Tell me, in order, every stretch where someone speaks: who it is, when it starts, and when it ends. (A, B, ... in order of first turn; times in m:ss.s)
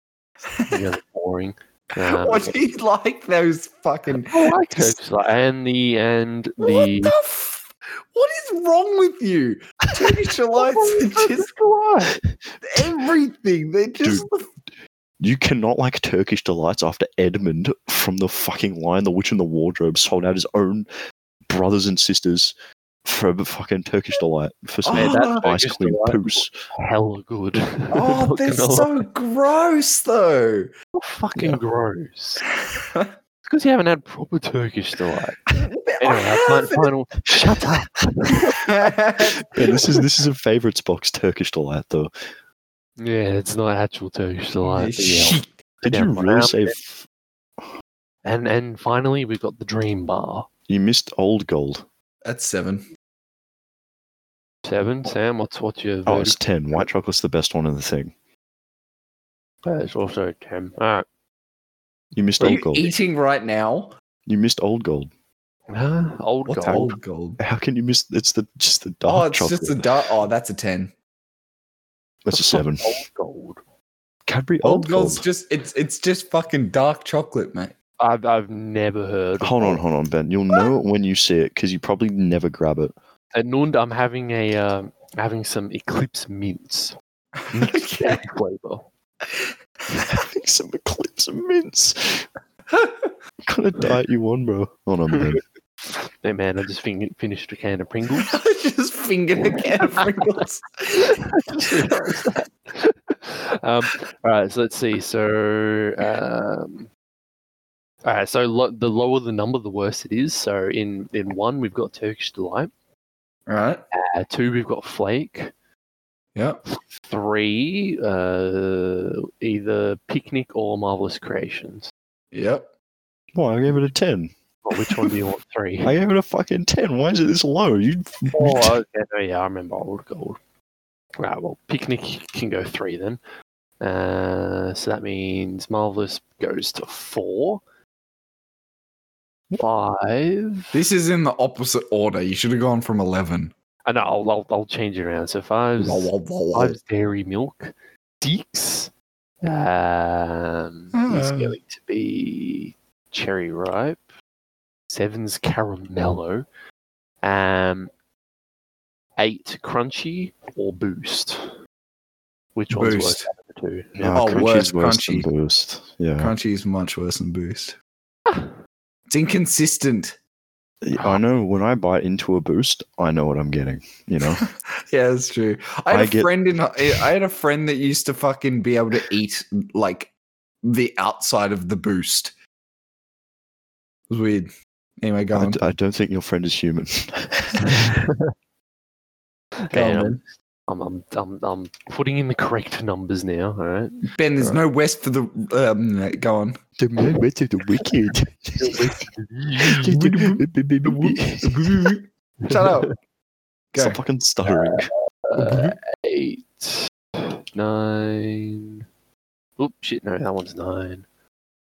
0:00.5-0:00.8 A
0:00.7-0:02.6 B
0:02.0-0:05.0 A
0:04.2-0:07.2 B
0:06.6-0:11.5 A
0:10.6-0:12.2 B
0:12.6-0:14.5 A
0:14.0-0:14.3 C
0:15.2-0:20.9 C
0:21.5-0:22.5 C
0:23.0-0:26.5 C
0:24.8-0:25.5 A
0:24.9-0:29.0 B
0:27.9-0:30.7 A
0:30.9-0:32.4 B
0:33.4-0:35.5 B
0:35.6-0:36.9 A
0:36.0-0:38.5 B
0:38.5-0:39.5 A
0:39.4-0:42.1 C
0:43.0-0:46.8 B
0:44.6-0:45.5 A
0:45.8-0:47.0 C
0:48.2-0:50.5 B
0:50.7-0:51.8 C
0:52.2-0:52.8 A
0:54.6-0:56.9 B
0:56.0-0:58.1 C
0:59.6-1:01.0 B
1:02.1-1:02.9 C
1:02.4-1:02.9 B
1:02.4-1:03.9 A
1:04.3-1:05.1 C
1:05.7-1:06.9 B
1:06.5-1:07.4 A
1:06.6-1:09.9 C
1:09.0-1:10.9 A
1:12.2-1:13.0 C
1:12.3-1:13.6 B
1:14.3-1:15.2 C
1:14.6-1:17.7 A
1:18.0-1:19.8 B
1:19.4-1:22.9 C
1:23.3-1:27.0 B
1:27.4-1:28.2 A
1:27.5-1:27.8 C
1:27.9-1:28.9 B
1:29.3-1:30.1 A
1:30.1-1:32.3 C
1:32.7-1:33.1 A
1:33.4-1:35.4 C
1:35.1-1:38.4 B
1:38.2-1:41.2 A
1:39.5-1:40.1 B
1:41.3-1:46.9 B
1:41.9-1:42.2 A
1:48.0-1:52.7 B
1:53.5-1:53.8 A
1:53.9-1:55.5 B
1:56.3-1:56.6 A
1:56.7-2:01.9 B
2:02.3-2:02.7 A
2:03.3-2:05.2 C
2:04.6-2:05.9 B
2:05.8-2:08.8 C
2:08.3-2:10.4 B
2:11.2-2:13.2 B
2:13.8-2:17.6 B
2:19.6-2:20.7 B
2:20.7-2:23.5 A
2:23.8-2:28.9 B
2:25.8-2:26.8 A
2:29.4-2:34.0 B
2:30.9-2:31.6 A
2:34.9-2:36.4 B
2:37.2-2:37.9 B
2:39.2-2:41.6 B
2:42.6-2:44.2 B
2:42.7-2:43.3 A
2:44.0-2:46.3 C
2:44.1-2:45.3 A
2:46.2-2:47.8 A
2:49.1-2:50.2 A
2:50.8-2:54.4 C
2:54.4-3:00.1 A
2:55.9-2:56.4 C
3:00.6-3:02.3 A
3:04.1-3:04.5 A
3:05.0-3:05.7 A
3:05.3-3:08.0 C
3:07.8-3:08.3 B
3:09.7-3:14.0 B
3:09.7-3:10.2 A
3:14.1-3:16.6 A
3:16.8-3:18.9 C
3:18.6-3:19.9 B
3:19.7-3:21.6 C
3:19.9-3:22.9 A
3:22.5-3:22.9 B
3:23.7-3:24.0 A
3:23.7-3:24.9 C
3:24.4-3:26.9 B
3:25.4-3:25.7 A
3:27.5-3:28.8 B
3:29.6-3:31.0 B